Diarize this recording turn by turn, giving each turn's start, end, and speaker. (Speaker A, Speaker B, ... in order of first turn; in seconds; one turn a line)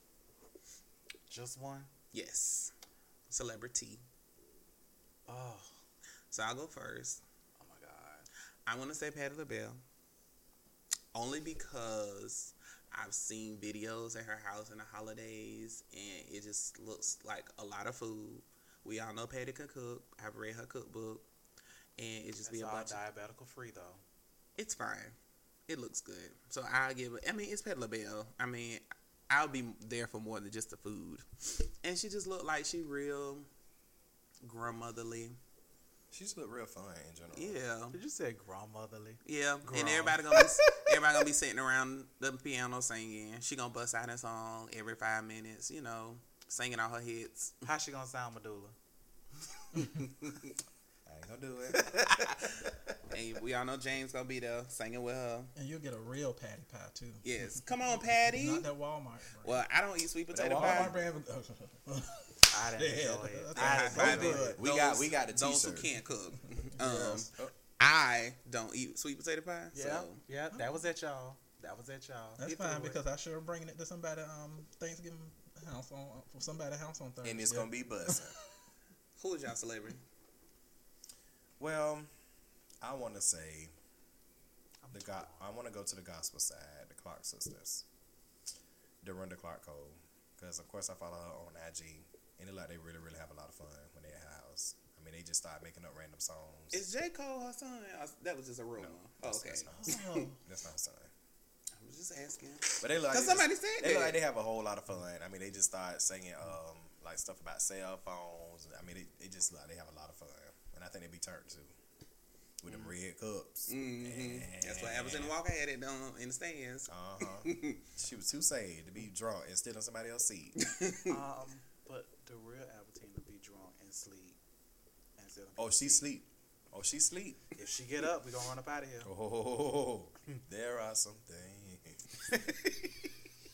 Speaker A: 1.3-1.9
Speaker B: 2.1-2.7
Speaker B: 3.3-4.0
Speaker A: 5.3-5.8
Speaker B: 6.3-7.2
Speaker A: 7.6-8.3
Speaker B: 8.7-9.8
Speaker B: 11.1-21.3
Speaker B: 22.0-23.0
Speaker A: 22.4-24.0
Speaker B: 24.6-25.1
Speaker B: 25.7-31.2
Speaker B: 31.8-33.5
Speaker B: 34.4-35.4
Speaker C: 36.1-37.6
Speaker B: 37.3-38.0
Speaker A: 37.9-40.5
Speaker B: 39.2-47.6
Speaker A: 47.6-48.8
Speaker A: 49.8-50.1
Speaker C: 51.1-52.0
Speaker A: 51.7-52.7
Speaker B: 53.1-55.5
Speaker D: 55.6-57.3
Speaker B: 57.2-58.7
Speaker D: 58.3-59.6
Speaker B: 59.4-61.0
Speaker C: 60.3-61.1
Speaker D: 60.5-64.6
Speaker A: 62.5-64.6
Speaker B: 63.5-70.2
Speaker C: 64.6-65.9
Speaker D: 66.8-67.2
Speaker C: 66.8-67.5
Speaker A: 69.7-73.0
Speaker D: 72.4-78.4
Speaker C: 77.2-78.4
Speaker B: 79.2-80.0
Speaker C: 81.6-82.1
Speaker C: 82.8-83.7
Speaker A: 84.8-85.5
Speaker C: 84.9-87.8
Speaker C: 89.0-96.8
Speaker B: 96.7-100.3
Speaker C: 98.8-101.1
Speaker D: 99.7-100.4
Speaker B: 101.8-104.2
Speaker C: 102.8-111.7
Speaker C: 112.6-115.3
Speaker B: 112.7-112.9
Speaker B: 113.7-117.8
Speaker C: 116.9-120.6
Speaker B: 120.6-121.2
Speaker A: 121.1-124.4
Speaker A: 125.2-126.1
Speaker C: 125.6-127.4
Speaker A: 127.6-129.1
Speaker C: 129.0-132.0
Speaker A: 132.3-133.1